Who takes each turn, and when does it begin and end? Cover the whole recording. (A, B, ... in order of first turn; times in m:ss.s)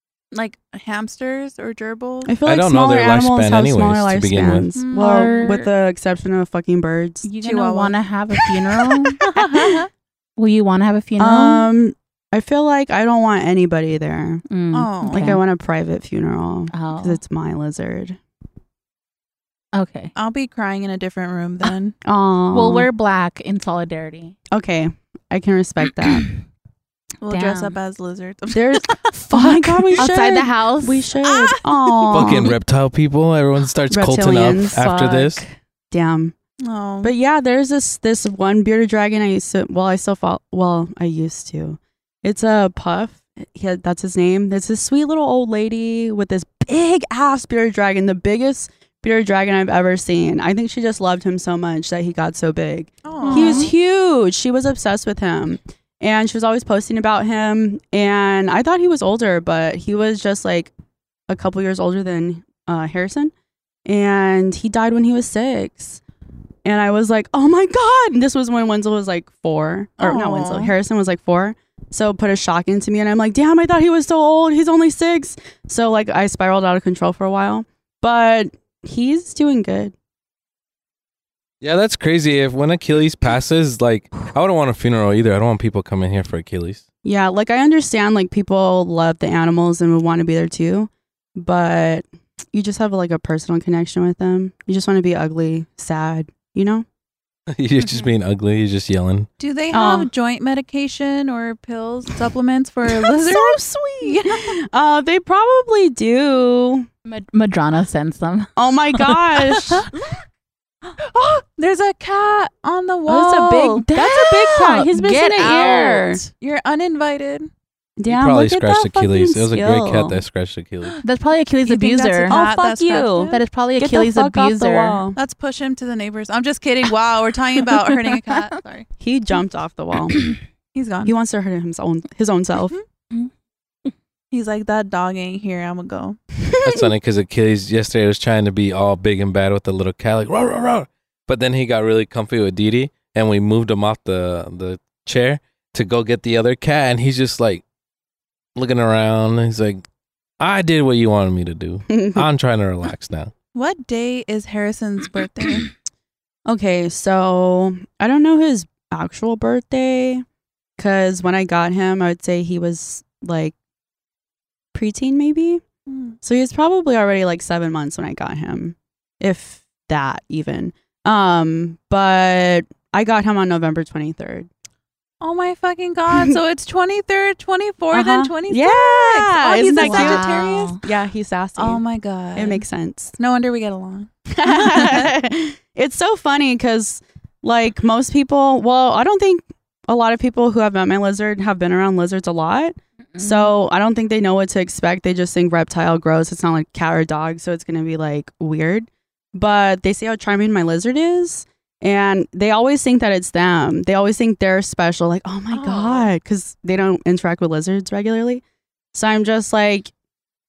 0:00.3-0:02.4 A
0:02.2-0:07.3 B
0:02.5-0:04.7 C
0:04.8-0:05.6 A
0:04.8-0:05.7 D
0:07.2-0:09.2 D
0:07.4-0:08.4 A
0:09.2-0:09.9 A
0:10.4-0:11.7 D
0:11.2-0:14.4 B
0:14.5-0:15.4 D
0:14.7-0:15.4 A
0:15.1-0:18.2 B
0:16.7-0:17.2 D
0:19.7-0:20.1 D
0:20.2-0:21.9 A
0:22.0-0:22.9 B
0:22.5-0:24.4 D
0:24.5-0:26.3 B
0:27.2-0:30.0 A
0:27.3-0:27.8 D
0:28.5-0:32.6 B
0:29.3-0:31.1 D
0:31.2-0:32.5 A
0:32.1-0:35.4 C
0:33.9-0:36.4 B
0:36.6-0:37.1 A
0:37.0-1:00.7 B
0:53.0-0:53.7 A
0:53.2-0:53.7 D
1:01.3-1:03.3 B
1:03.9-1:06.0 B
1:06.6-1:19.9 B
1:10.0-1:10.7 A
1:21.6-1:26.8 C
1:27.0-1:36.9 B
1:37.5-1:39.3 C
1:39.4-1:44.6 A
1:39.7-1:40.1 B
1:42.9-1:46.9 B
1:47.1-1:48.5 D
1:48.6-1:49.9 B
1:50.9-1:53.8 A
1:53.1-1:56.2 B
1:53.8-1:56.3 D
1:56.4-1:57.5 A
1:58.0-2:00.2 B
1:58.1-2:01.0 C
2:01.0-2:02.4 D
2:01.6-2:03.4 A
2:02.3-2:05.2 B
2:03.3-2:05.0 D
2:05.2-2:08.9 A
2:08.1-2:08.4 D
2:09.0-2:10.2 B
2:10.7-2:11.2 A
2:11.1-2:12.8 B
2:14.3-2:16.2 A
2:16.6-2:27.6 C
2:16.6-2:16.9 B
2:28.6-2:29.8 C
2:30.4-2:33.3 C
2:31.9-2:32.2 B
2:33.5-2:35.7 A
2:36.5-2:40.2 B
2:40.8-2:43.6 B
2:44.7-2:45.6 B
2:45.9-2:46.2 A
2:46.2-2:54.5 B
2:55.2-3:00.8 A
2:56.1-2:56.4 B
2:57.9-3:01.8 B
2:59.8-3:00.8 D
3:01.6-3:02.6 A
3:02.4-3:03.2 B
3:03.2-3:05.1 A
3:04.4-3:29.9 B
3:13.2-3:13.5 D
3:25.5-3:26.0 D